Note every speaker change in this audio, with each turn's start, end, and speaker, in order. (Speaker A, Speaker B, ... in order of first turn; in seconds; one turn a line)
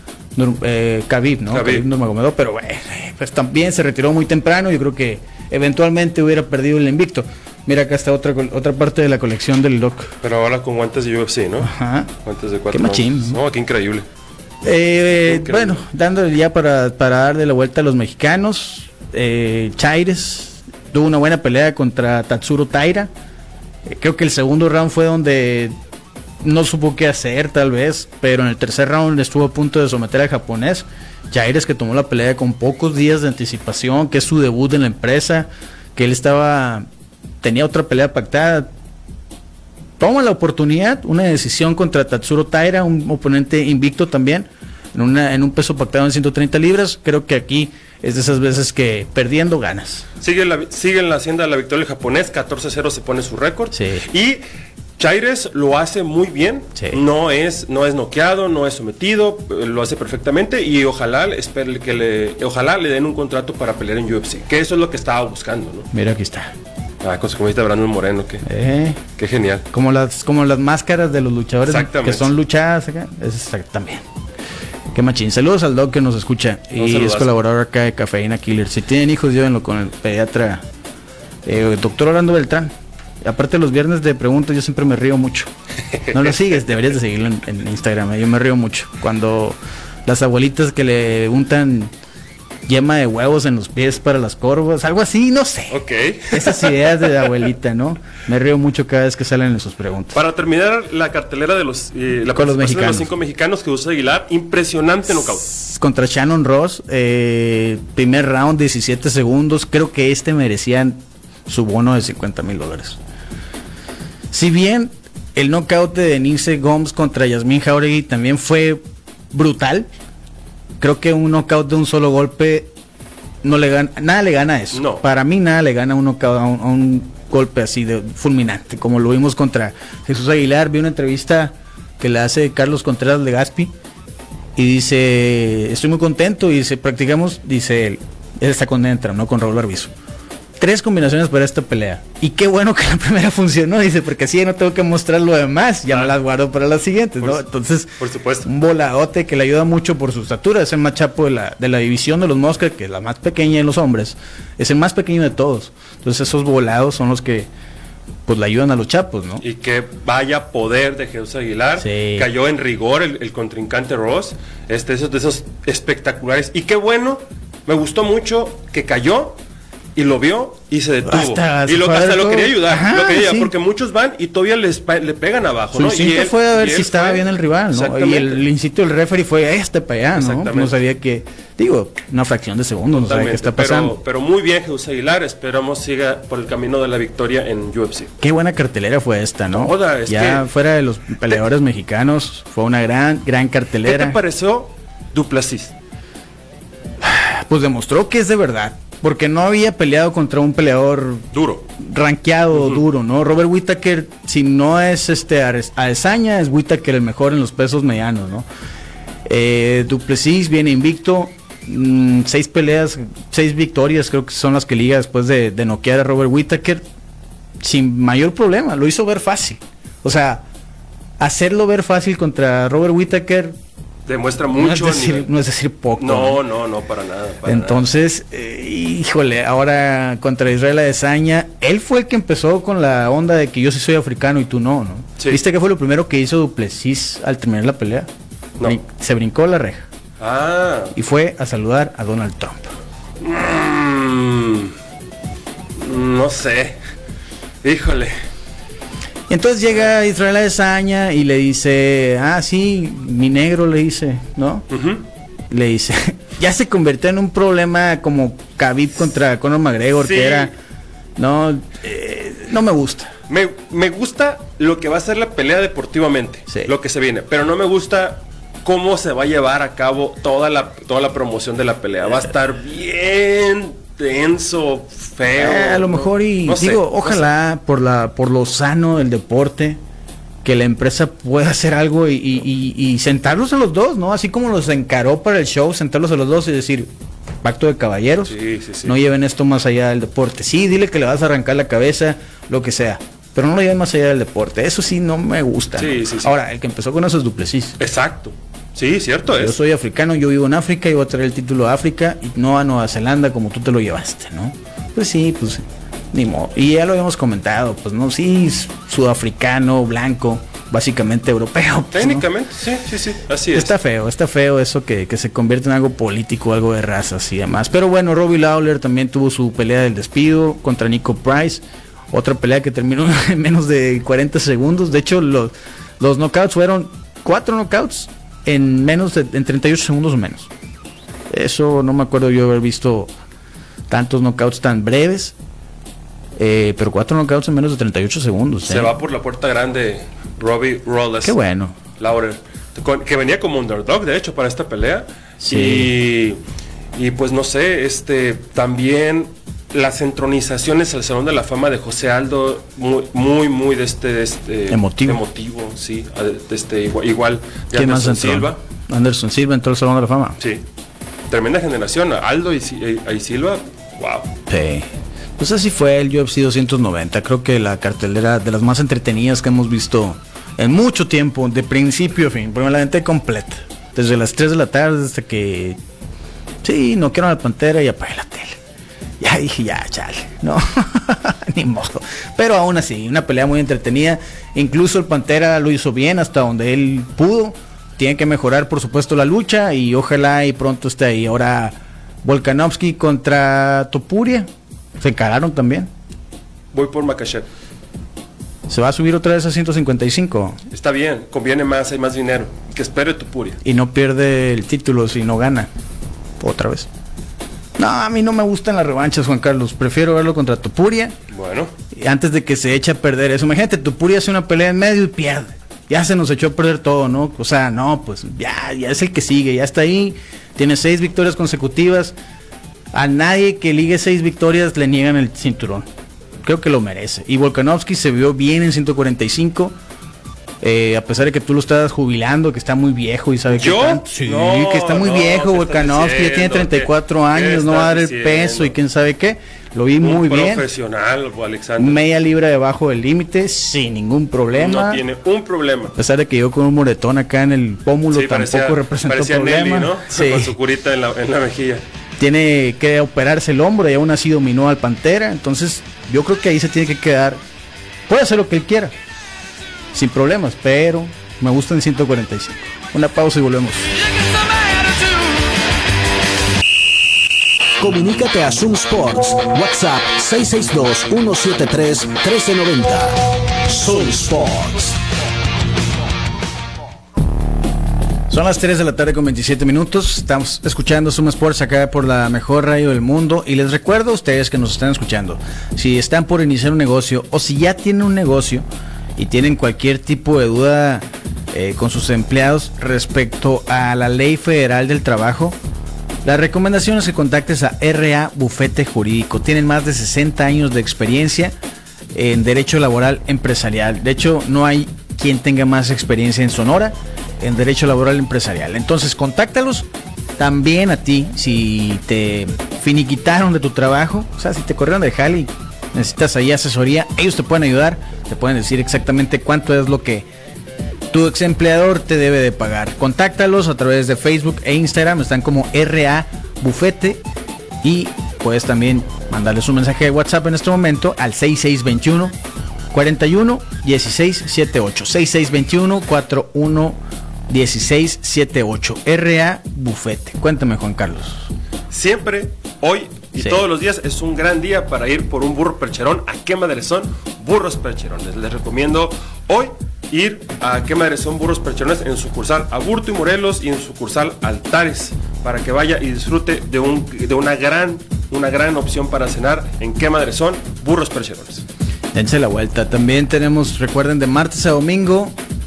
Speaker A: 0.3-10.1
Speaker B: 1.5-1.9
Speaker B: 10.2-11.7
Speaker A: 11.6-12.1
Speaker B: 12.2-14.1
Speaker A: 12.7-13.4
Speaker A: 14.6-23.1
Speaker B: 15.2-15.8
Speaker A: 23.8-25.7
Speaker A: 26.4-36.9
Speaker A: 37.4-38.7
Speaker A: 40.0-50.0
Speaker B: 50.2-54.4
Speaker A: 53.7-54.0
Speaker B: 55.0-65.9
Speaker A: 56.8-57.0
Speaker A: 65.9-66.5
Speaker B: 67.0-68.4
Speaker A: 68.4-69.0
Speaker B: 69.2-69.7
Speaker A: 69.7-74.0
Speaker B: 71.7-72.3
Speaker A: 74.9-80.6
Speaker B: 76.8-77.3
Speaker A: 81.4-85.5
Speaker A: 86.1-91.9
Speaker A: 92.7-95.8
Speaker B: 95.7-97.2
Speaker A: 96.3-100.2
Speaker B: 100.1-105.5
Speaker A: 102.3-103.1
Speaker A: 105.4-113.0
Speaker A: 114.3-119.9
Speaker A: 120.8-122.7
Speaker A: 123.4-133.7
Speaker B: 124.7-125.0
Speaker A: 134.6-139.9
Speaker A: 140.6-157.5
Speaker B: 145.9-146.1
Speaker B: 148.0-148.5
Speaker A: 158.2-159.4
Speaker B: 159.4-169.4
Speaker A: 161.8-162.3
Speaker B: 169.9-178.4
Speaker A: 171.1-173.5
Speaker A: 175.7-183.9
Speaker B: 180.1-180.8
Speaker B: 182.9-188.1
Speaker A: 188.2-194.2
Speaker B: 189.5-190.5
Speaker B: 193.8-195.7
Speaker A: 197.0-201.3
Speaker B: 201.3-201.7
Speaker A: 201.8-208.4
Speaker A: 209.2-216.8
Speaker A: 217.6-220.4
Speaker A: 221.2-223.6
Speaker B: 224.1-225.3
Speaker A: 224.6-226.4
Speaker B: 226.0-227.8
Speaker A: 227.4-238.1
Speaker A: 238.6-239.9
Speaker B: 240.2-240.9
Speaker A: 240.9-242.7
Speaker B: 243.2-244.7
Speaker B: 245.8-246.8
Speaker B: 247.6-248.1
Speaker A: 249.3-254.7
Speaker B: 254.7-255.0
Speaker A: 255.5-260.5
Speaker B: 259.9-260.5
Speaker A: 261.2-263.1
Speaker B: 263.3-277.3
Speaker A: 275.4-279.8
Speaker A: 280.4-286.9
Speaker A: 287.4-297.8
Speaker B: 288.3-288.9
Speaker B: 295.8-296.4
Speaker B: 297.8-299.6
Speaker A: 299.4-312.3
Speaker B: 311.9-313.7
Speaker A: 313.5-330.5
Speaker A: 331.3-333.1
Speaker A: 333.9-335.4
Speaker A: 336.4-338.9
Speaker B: 338.7-341.4
Speaker A: 341.2-341.8
Speaker B: 342.0-346.4
Speaker A: 345.4-345.9
Speaker B: 346.9-358.6
Speaker A: 354.7-355.2
Speaker A: 357.7-360.4
Speaker B: 361.3-364.3
Speaker A: 364.5-375.8
Speaker A: 376.6-378.6
Speaker A: 379.2-395.9
Speaker B: 396.7-397.4
Speaker A: 398.7-400.6
Speaker B: 400.7-403.6
Speaker A: 403.6-405.7
Speaker A: 406.4-406.9
Speaker A: 407.8-411.1
Speaker B: 411.3-411.7
Speaker A: 411.9-422.1
Speaker A: 422.9-425.9
Speaker A: 426.4-429.8
Speaker A: 430.6-440.6
Speaker B: 433.5-438.7
Speaker B: 440.0-442.0
Speaker A: 441.8-445.0
Speaker B: 444.5-445.9
Speaker A: 445.9-450.5
Speaker B: 448.1-451.8
Speaker A: 452.2-457.4
Speaker A: 458.1-458.9
Speaker A: 459.9-463.9
Speaker C: 467.8-475.0
Speaker A: 478.3-488.6
Speaker A: 489.2-495.6
Speaker A: 496.2-501.5
Speaker A: 502.1-520.3
Speaker A: 521.1-527.2
Speaker A: 527.8-532.4
Speaker A: 532.9-541.5
Speaker B: 541.9-561.6
Speaker A: 543.4-543.7
Speaker A: 562.1-565.4